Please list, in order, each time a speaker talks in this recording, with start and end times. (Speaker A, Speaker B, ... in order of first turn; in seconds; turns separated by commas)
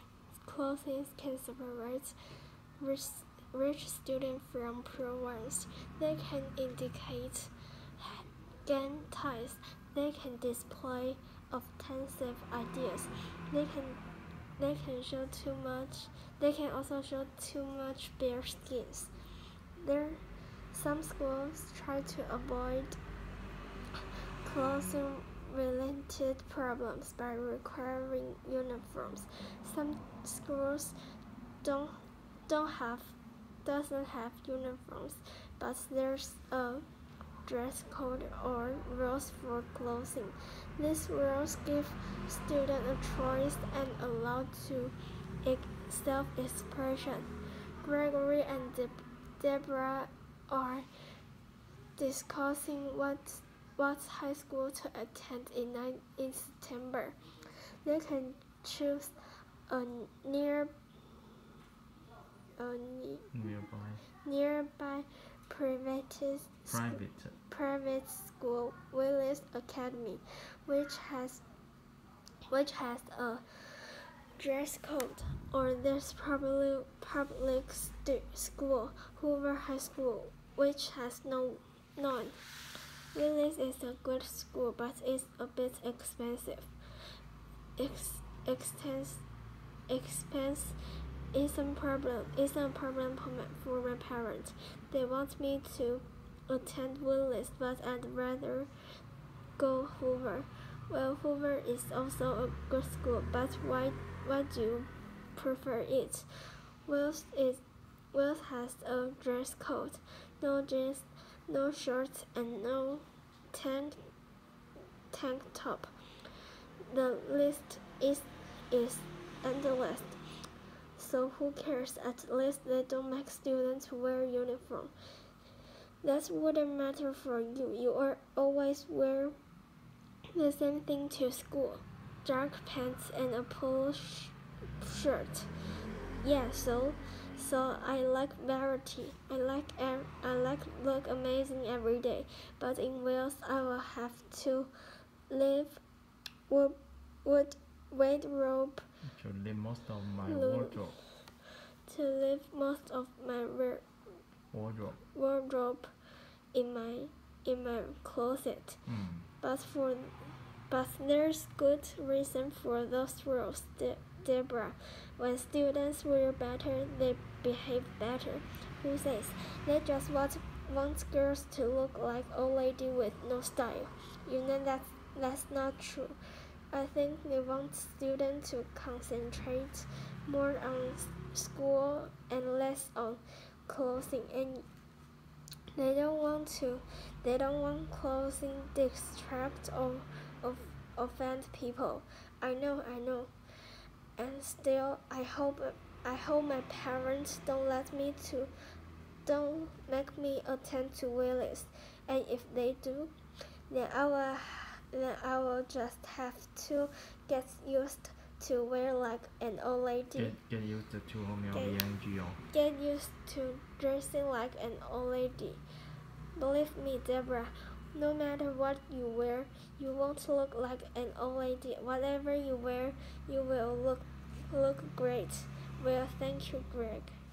Speaker A: 0.3-2.1, Speaker A: 2.8-14.0, Speaker A: 14.6-19.1, Speaker A: 19.8-23.0, Speaker A: 24.4-30.9, Speaker A: 31.6-36.9, Speaker A: 37.4-47.3, Speaker A: 47.8-50.9, Speaker A: 52.0-57.2, Speaker A: 57.8-59.1, Speaker A: 59.7-60.7, Speaker A: 62.5-63.3, Speaker B: 63.3-64.0, Speaker A: 64.2-71.4, Speaker B: 66.7-67.3, Speaker A: 72.5-82.4, Speaker A: 83.1-86.7, Speaker A: 87.8-89.2, Speaker A: 89.9-90.8, Speaker A: 91.3-98.7, Speaker A: 99.6-106.3, Speaker A: 106.8-114.0, Speaker A: 115.1-115.9, Speaker A: 116.9-120.2, Speaker A: 121.0-124.9, Speaker A: 126.0-129.3, Speaker A: 130.3-135.5, Speaker A: 136.2-144.7, Speaker A: 145.3-145.8, Speaker A: 146.5-148.8, Speaker B: 149.1-151.0, Speaker A: 150.3-151.1, Speaker A: 151.8-153.9, Speaker B: 154.5-155.0, Speaker A: 155.1-155.9, Speaker A: 156.5-158.8, Speaker B: 158.8-159.3, Speaker A: 159.4-176.2, Speaker A: 176.7-184.6, Speaker A: 185.7-193.3, Speaker A: 194.2-198.5, Speaker A: 199.2-203.1, Speaker A: 203.7-210.3, Speaker B: 210.1-212.4, Speaker A: 211.5-211.8, Speaker A: 212.4-215.6, Speaker A: 216.3-227.2